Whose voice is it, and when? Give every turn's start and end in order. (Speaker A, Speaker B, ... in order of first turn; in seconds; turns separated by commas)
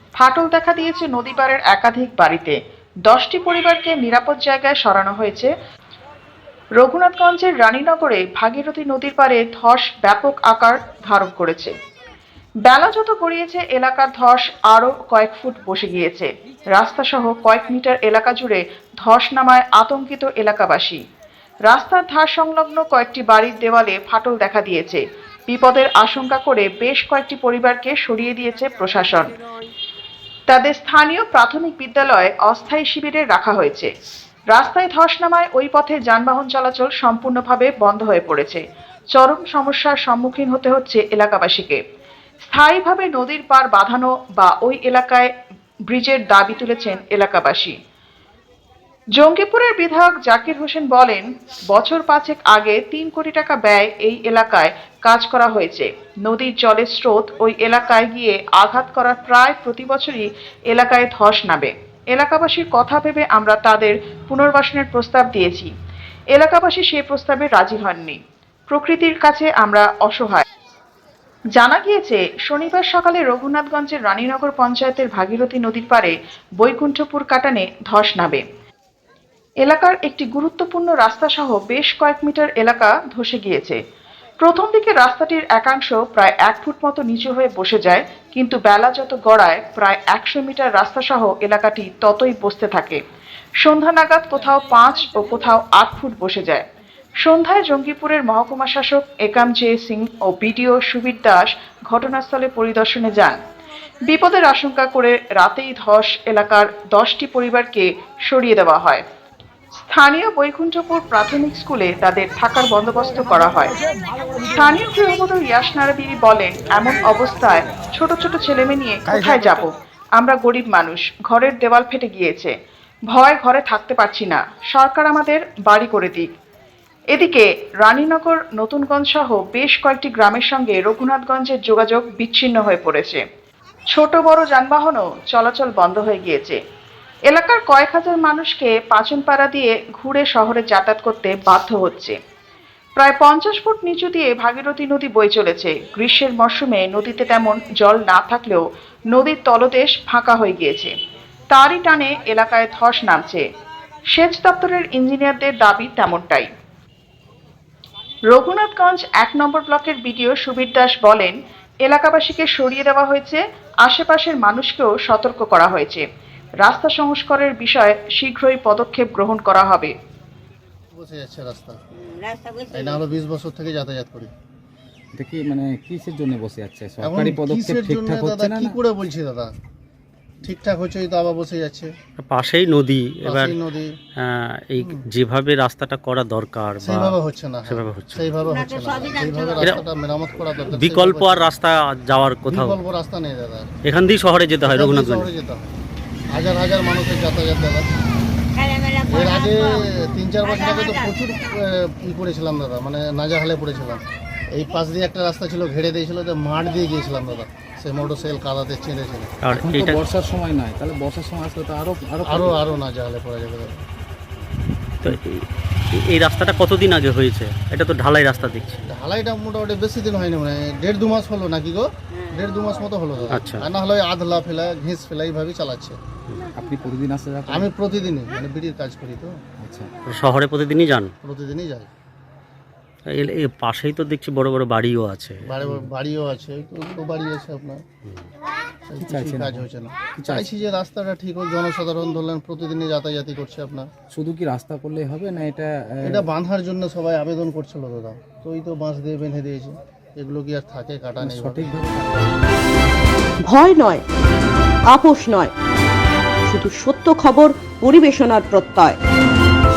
Speaker A: 0.2-2.5, Speaker A: 3.1-5.5, Speaker A: 6.8-11.7, Speaker A: 12.6-21.0, Speaker A: 21.7-29.3, Speaker A: 30.5-33.9, Speaker A: 34.5-41.8, Speaker A: 42.5-45.3, Speaker A: 45.9-47.8, Speaker A: 49.1-65.7, Speaker A: 66.3-70.5, Speaker A: 71.5-78.4, Speaker A: 79.6-83.8, Speaker A: 84.4-93.0, Speaker A: 93.6-96.6, Speaker A: 97.2-103.4, Speaker A: 104.0-109.0, Speaker A: 109.8-113.8, Speaker A: 114.5-122.5, Speaker A: 123.1-126.3, Speaker A: 127.1-133.2, Speaker A: 133.9-136.6, Speaker A: 137.3-142.2, Speaker A: 143.0-150.9, Speaker A: 151.5-153.4, Speaker A: 154.1-156.5, Speaker A: 158.3-166.0, Speaker A: 166.6-169.9, Speaker B: 170.9-171.8, Speaker C: 172.1-173.0, Speaker B: 172.7-174.3, Speaker D: 175.1-178.8, Speaker B: 177.0-179.5, Speaker B: 180.4-181.9, Speaker E: 182.2-183.6, Speaker B: 183.2-183.9, Speaker E: 184.2-188.3, Speaker B: 184.8-185.0, Speaker B: 186.8-191.5, Speaker C: 188.4-189.8, Speaker E: 189.6-189.8, Speaker E: 190.6-192.8, Speaker B: 192.5-193.7, Speaker E: 193.8-195.3, Speaker B: 194.6-195.7, Speaker B: 196.3-197.9, Speaker C: 198.6-199.8, Speaker B: 199.0-209.3, Speaker C: 200.4-201.1, Speaker E: 209.4-210.0, Speaker D: 209.5-212.6, Speaker B: 212.3-213.8, Speaker E: 215.0-215.4, Speaker E: 216.1-218.8, Speaker B: 218.9-226.0, Speaker E: 223.3-223.6, Speaker D: 226.5-227.7, Speaker B: 227.5-229.4, Speaker D: 229.6-229.9, Speaker E: 230.1-231.1, Speaker B: 231.2-231.9, Speaker E: 233.1-235.4, Speaker B: 235.5-237.8, Speaker B: 238.9-243.9, Speaker D: 239.0-239.6, Speaker D: 240.2-240.5, Speaker D: 244.1-246.2, Speaker B: 246.0-251.7, Speaker D: 251.2-252.2, Speaker C: 253.4-254.0, Speaker C: 254.8-255.5, Speaker C: 256.5-259.0